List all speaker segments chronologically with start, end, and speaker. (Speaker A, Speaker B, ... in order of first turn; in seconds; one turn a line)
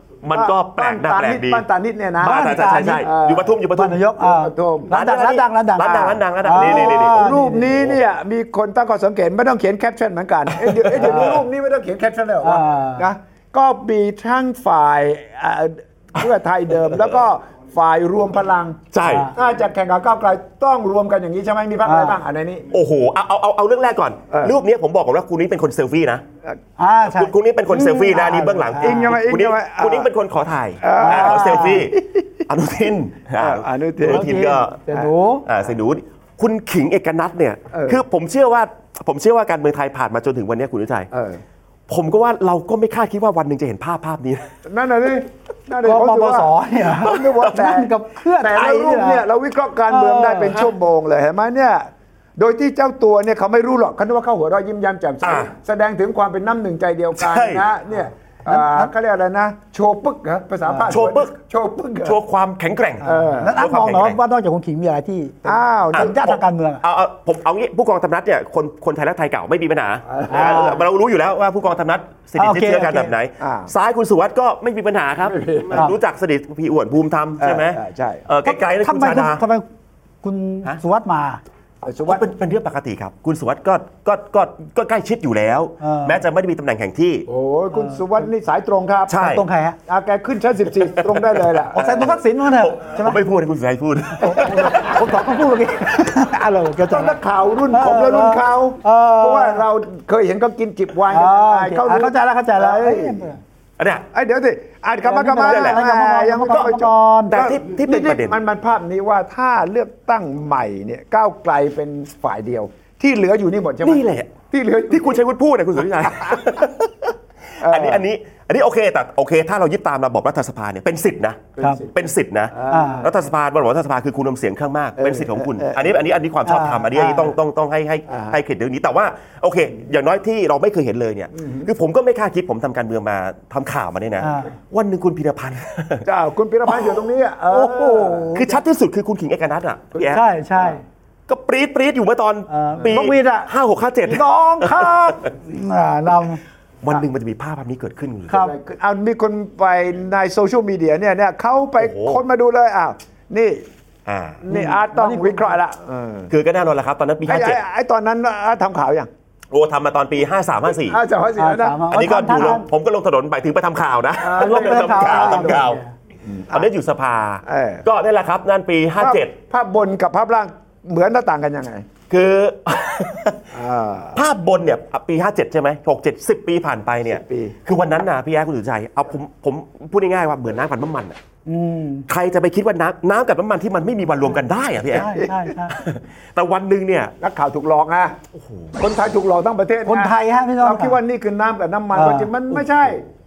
Speaker A: 0.2-1.6
Speaker B: 0.3-3.6
Speaker C: 2.2-3.0
Speaker A: 2.2-4.0
Speaker C: 3.7-7.7
Speaker B: 4.2-4.9
Speaker A: 4.9-8.0
Speaker B: 6.5-18.8
Speaker A: 10.6-11.3
Speaker C: 10.9-11.4
Speaker C: 12.4-13.0
Speaker A: 18.9-19.3
Speaker C: 19.0-19.3
Speaker B: 19.3-22.7
Speaker C: 21.8-22.2
Speaker A: 22.7-26.2
Speaker B: 24.3-24.6
Speaker C: 26.8-29.2
Speaker A: 27.0-34.8
Speaker B: 28.1-30.1
Speaker B: 30.8-32.2
Speaker C: 30.9-31.9
Speaker B: 33.4-34.4
Speaker C: 34.0-35.4
Speaker A: 35.4-41.1
Speaker B: 37.7-38.0
Speaker B: 41.1-41.4
Speaker A: 41.9-44.5
Speaker B: 44.6-62.2
Speaker C: 45.8-49.2
Speaker A: 47.1-47.5
Speaker C: 49.9-50.6
Speaker A: 55.2-55.5
Speaker A: 57.1-57.6
Speaker C: 58.5-58.9
Speaker C: 60.6-60.9
Speaker A: 60.9-61.3
Speaker A: 62.0-64.2
Speaker C: 63.0-66.8
Speaker B: 63.0-63.6
Speaker B: 65.4-66.2
Speaker A: 65.9-79.4
Speaker B: 70.1-70.8
Speaker C: 70.3-70.8
Speaker C: 72.3-73.1
Speaker B: 73.4-73.7
Speaker B: 75.2-75.8
Speaker B: 77.4-78.3
Speaker C: 78.4-79.6
Speaker C: 80.2-81.4
Speaker B: 81.8-82.3
Speaker A: 82.0-87.2
Speaker C: 85.8-86.2
Speaker B: 87.3-89.2
Speaker C: 87.7-88.0
Speaker A: 89.1-89.4
Speaker C: 89.2-89.8
Speaker B: 89.9-92.2
Speaker A: 90.9-91.4
Speaker C: 91.7-93.2
Speaker A: 92.5-95.0
Speaker C: 94.2-97.2
Speaker B: 96.9-103.2
Speaker C: 97.7-99.6
Speaker C: 101.1-103.4
Speaker A: 103.8-104.1
Speaker B: 104.1-115.2
Speaker C: 105.0-107.4
Speaker A: 105.5-105.8
Speaker A: 107.3-108.4
Speaker A: 113.8-114.3
Speaker A: 114.9-136.1
Speaker B: 115.9-116.6
Speaker B: 117.6-118.0
Speaker B: 121.6-121.9
Speaker B: 122.5-123.1
Speaker C: 122.7-123.1
Speaker B: 125.0-125.9
Speaker C: 126.4-127.3
Speaker B: 128.1-128.4
Speaker B: 131.3-131.7
Speaker C: 134.2-134.5
Speaker B: 136.0-138.5
Speaker C: 137.5-138.4
Speaker A: 138.3-140.2
Speaker B: 139.9-140.8
Speaker C: 140.0-140.8
Speaker A: 141.3-145.3
Speaker C: 142.5-143.5
Speaker C: 144.1-146.4
Speaker A: 146.8-148.4
Speaker C: 148.3-148.5
Speaker B: 148.3-153.6
Speaker A: 151.8-152.2
Speaker A: 154.1-154.4
Speaker B: 154.4-156.3
Speaker C: 154.5-155.6
Speaker A: 156.3-157.6
Speaker B: 157.2-159.1
Speaker A: 159.5-161.0
Speaker B: 160.8-161.8
Speaker C: 161.4-162.7
Speaker A: 161.9-165.8
Speaker B: 164.2-165.7
Speaker C: 164.3-165.9
Speaker B: 166.2-166.7
Speaker A: 166.5-169.3
Speaker B: 167.4-167.8
Speaker B: 169.0-171.8
Speaker A: 172.1-173.5
Speaker B: 173.5-174.2
Speaker A: 174.1-181.2
Speaker B: 177.1-177.6
Speaker C: 181.4-182.1
Speaker A: 182.1-187.1
Speaker C: 184.9-185.8
Speaker B: 187.2-188.2
Speaker A: 188.3-188.7
Speaker B: 188.8-193.0
Speaker C: 189.8-191.0
Speaker C: 191.9-192.3